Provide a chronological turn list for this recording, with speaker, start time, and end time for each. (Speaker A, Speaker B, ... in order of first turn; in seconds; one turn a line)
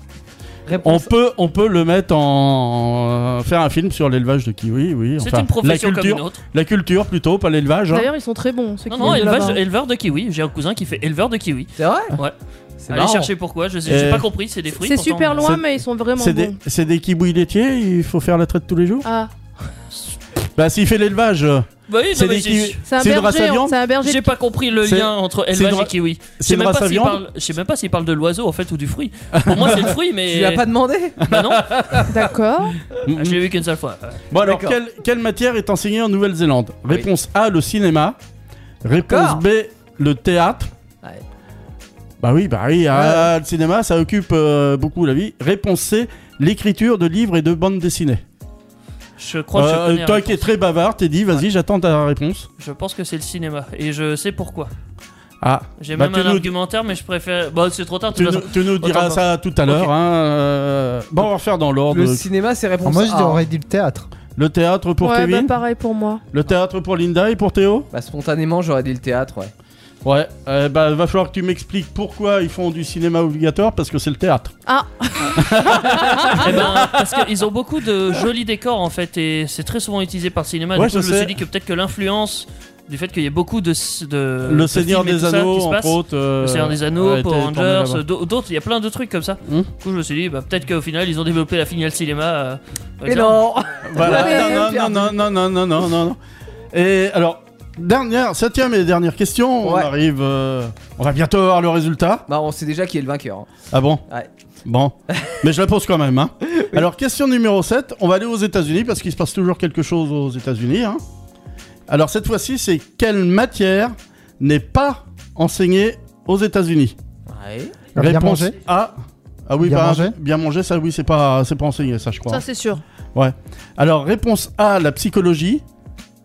Speaker A: 0.7-1.1
Speaker B: 0.8-8.1
Speaker C: 5.2-6.4
Speaker D: 7.9-9.6
Speaker C: 8.9-12.3
Speaker A: 11.8-12.2
Speaker A: 12.8-13.3
Speaker C: 12.9-15.5
Speaker B: 13.9-14.3
Speaker D: 14.8-16.6
Speaker B: 15.4-19.1
Speaker D: 19.0-19.3
Speaker B: 20.6-23.8
Speaker C: 21.9-22.8
Speaker D: 22.9-24.3
Speaker C: 24.0-30.6
Speaker B: 24.8-27.2
Speaker B: 29.4-29.9
Speaker A: 30.2-31.2
Speaker C: 31.3-32.1
Speaker B: 31.3-32.3
Speaker D: 32.1-32.8
Speaker B: 33.0-33.4
Speaker C: 33.1-34.2
Speaker B: 34.3-38.2
Speaker A: 34.4-34.8
Speaker B: 38.8-40.7
Speaker A: 39.1-39.4
Speaker B: 42.2-48.2
Speaker A: 42.9-43.3
Speaker C: 49.2-50.5
Speaker B: 49.5-52.5
Speaker C: 52.6-54.7
Speaker B: 55.4-56.5
Speaker C: 55.8-59.9
Speaker B: 58.1-62.2
Speaker A: 61.9-63.4
Speaker E: 62.8-64.1
Speaker B: 64.3-65.5
Speaker D: 65.0-66.2
Speaker B: 66.3-67.9
Speaker A: 67.9-69.5
Speaker B: 70.0-74.5
Speaker D: 74.7-76.5
Speaker B: 75.3-77.2
Speaker C: 76.4-93.4
Speaker B: 80.8-81.3
Speaker B: 84.4-88.0
Speaker A: 93.0-95.2
Speaker B: 93.8-96.2
Speaker D: 94.0-94.6
Speaker B: 96.7-102.2
Speaker A: 99.6-99.9
Speaker A: 102.3-103.5
Speaker B: 103.7-104.0
Speaker B: 104.7-111.0
Speaker A: 105.1-105.4
Speaker A: 106.4-106.8
Speaker B: 111.9-117.0
Speaker A: 117.3-117.8
Speaker E: 117.9-118.5
Speaker B: 118.0-118.9
Speaker B: 119.5-122.4
Speaker E: 119.6-120.2
Speaker D: 122.3-122.8
Speaker B: 123.1-125.6